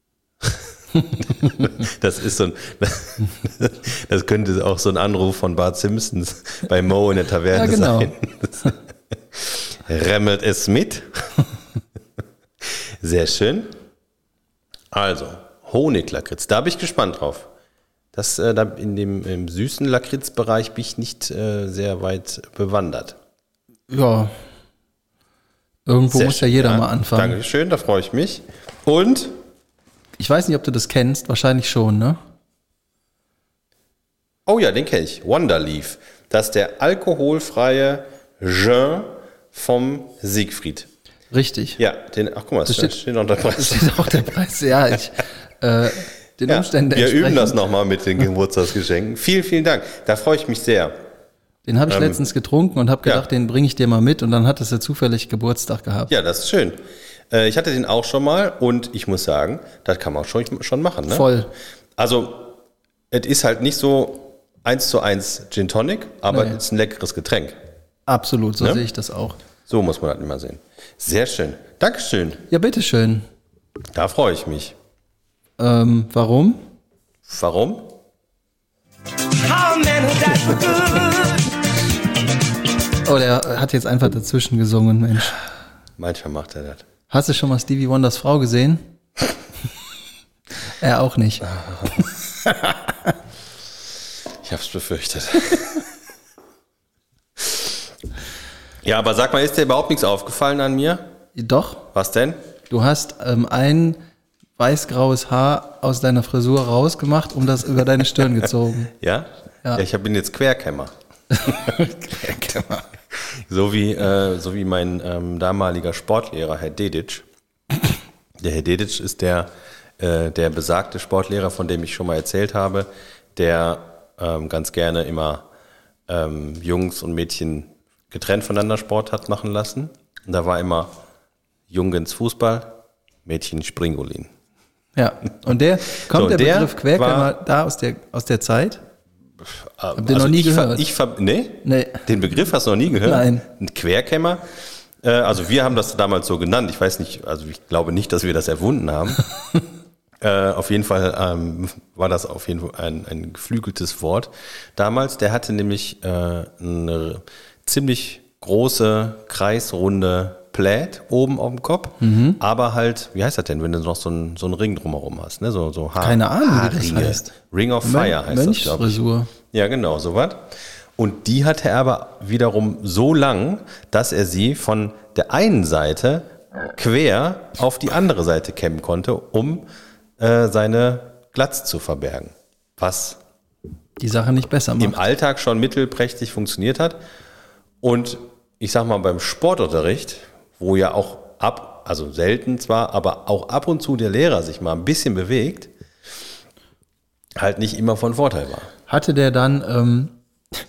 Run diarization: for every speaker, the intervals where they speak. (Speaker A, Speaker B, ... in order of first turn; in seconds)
Speaker A: 1.4-8.7, 9.3-11.3, 13.0-13.7, 14.9-17.5, 18.1-23.2, 26.1-29.4, 34.5-40.9, 41.8-44.3, 46.5-51.0, 51.9-52.2, 56.1-61.3, 62.0-62.6, 63.1-67.6, 69.7-72.4, 73.9-74.8, 77.3-77.9, 86.0-86.8, 91.7-92.0, 94.4-95.9, 98.8-101.0, 101.9-102.4, 108.9-110.9, 113.1-117.2, 118.4-125.5, 126.1-131.0, 131.7-134.3, 136.1-137.3, 139.4-144.4, 145.0-149.2, 150.2-179.7, 180.2-183.2, 184.8-187.0, 187.8-195.7, 197.4-198.7
Speaker B: 7.5-8.7, 23.9-24.3, 25.9-27.4, 30.2-32.2, 41.3-41.8, 42.7-43.0, 43.5-47.6, 51.7-56.1, 61.1-61.5, 66.3-66.6, 68.1-69.4, 72.5-73.3, 75.6-76.6, 83.0-85.4, 87.1-88.8, 90.8-91.5, 92.5-93.1, 101.3-101.9, 102.7-104.0, 104.6-108.9, 111.4-112.9, 135.0-138.8, 139.9-140.8, 141.6-142.0, 143.0-143.4, 162.0-162.4, 166.0-167.3, 167.8-169.3, 184.0-185.0, 198.9-200.2
Speaker C: 79.3-81.5